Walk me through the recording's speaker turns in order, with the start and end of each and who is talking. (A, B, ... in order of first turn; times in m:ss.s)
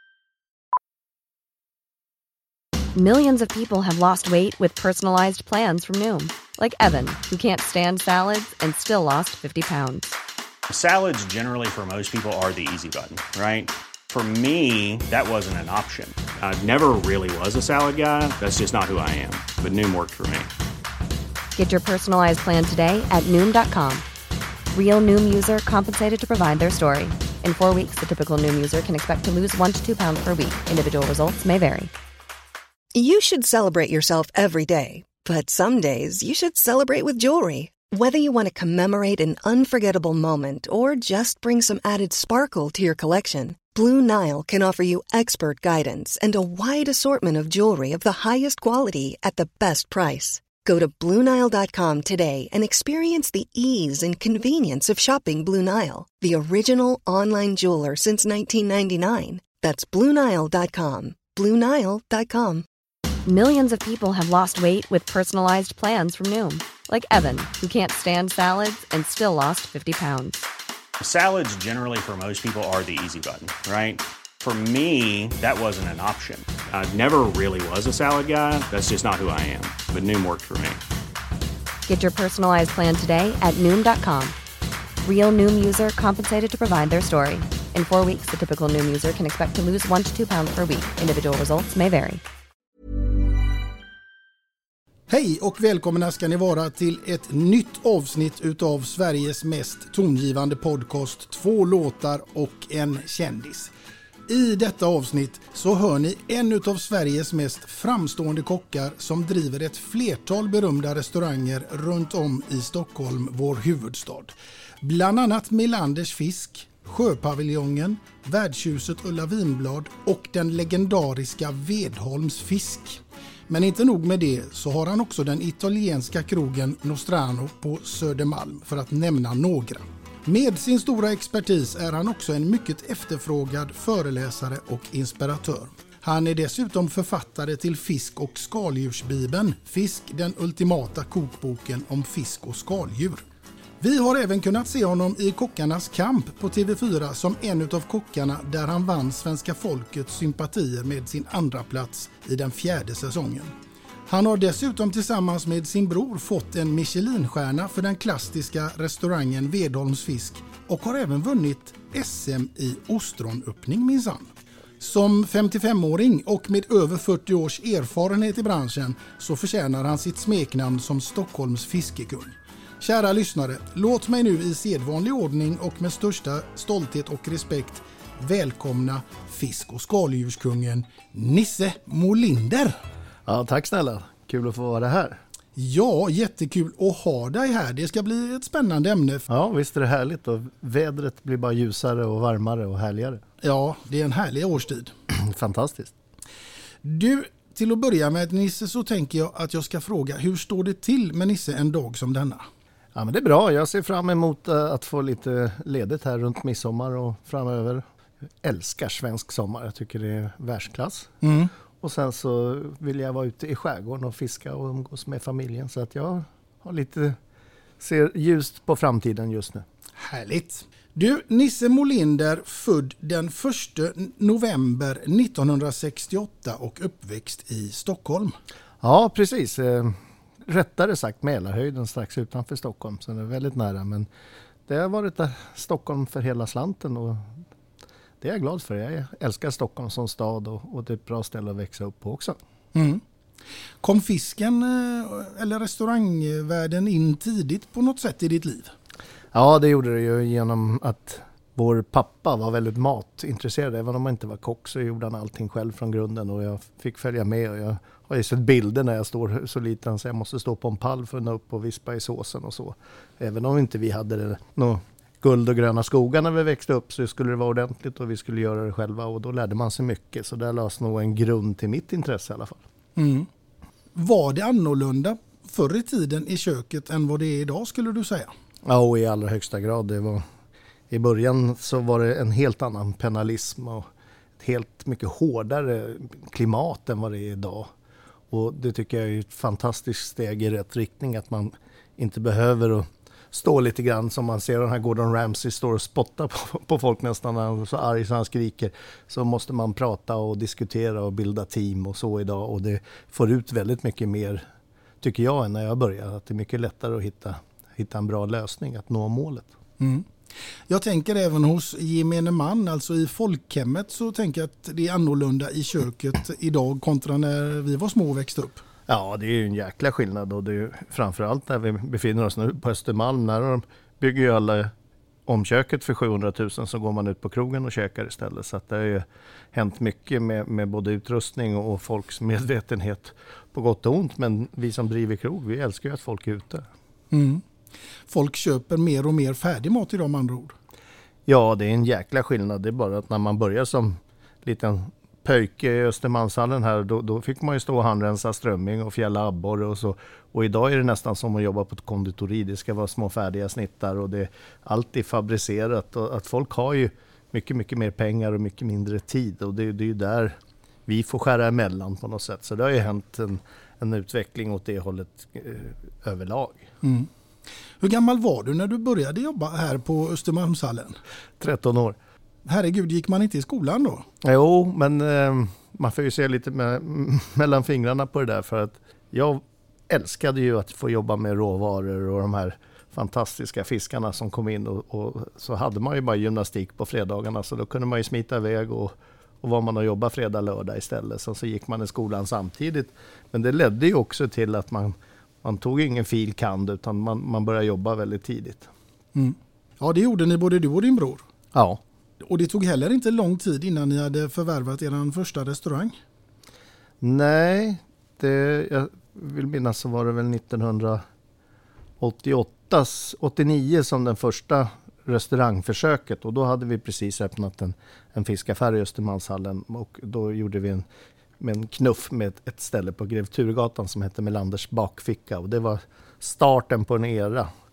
0:03.0-0:10.2 A
0:10.7-0:20.5 B
0:21.6-0:24.0 A
0:24.7-0:31.9 A
0:32.9-1:02.7 C
1:03.3-1:10.5 A
1:11.0-1:20.8 B
1:21.9-1:24.4 A
1:25.0-1:32.2 A
1:35.1-1:43.7 D
1:44.3-2:23.2 D
2:23.8-2:33.5 D
2:34.1-3:02.8 D
3:03.3-3:05.2 E
3:05.6-3:09.3 D
3:09.3-3:13.2 E
3:13.4-3:14.9 D
3:15.1-3:15.9 E
3:16.8-3:22.4 D
3:23.0-3:27.8 E
3:28.4-3:31.1 E
3:31.2-3:31.5 D
3:31.8-3:37.2 E
3:37.8-3:39.6 E
3:40.0-3:48.4 D
3:48.8-3:54.1 E
3:54.7-3:57.3 E
3:58.2-4:02.4 E
4:02.7-4:03.0 D
4:03.8-4:08.7 D
4:09.3-4:32.6 E
4:33.0-4:33.3 D
4:34.0-4:38.3 D
4:38.6-4:40.2 E
4:40.9-4:43.9 E
4:44.4-4:47.7 E
4:48.3-5:04.5 E
5:05.0-5:09.5 E
5:09.8-5:10.1 D
5:10.7-5:18.6 D
5:18.9-5:24.7 E
5:25.3-5:36.7 E
5:37.1-5:37.4 D
5:38.1-5:40.6 D
5:41.3-6:06.7 E
6:06.8-6:07.1 D
6:07.8-6:11.0 D
6:11.4-6:12.0 E
6:12.4-6:14.1 D
6:14.2-6:38.7 E
6:39.2-6:41.2 D
6:41.5-6:41.8 E
6:42.2-6:46.0 D
6:47.0-6:51.0 E
6:52.0-7:00.9 E
7:01.4-7:07.5 E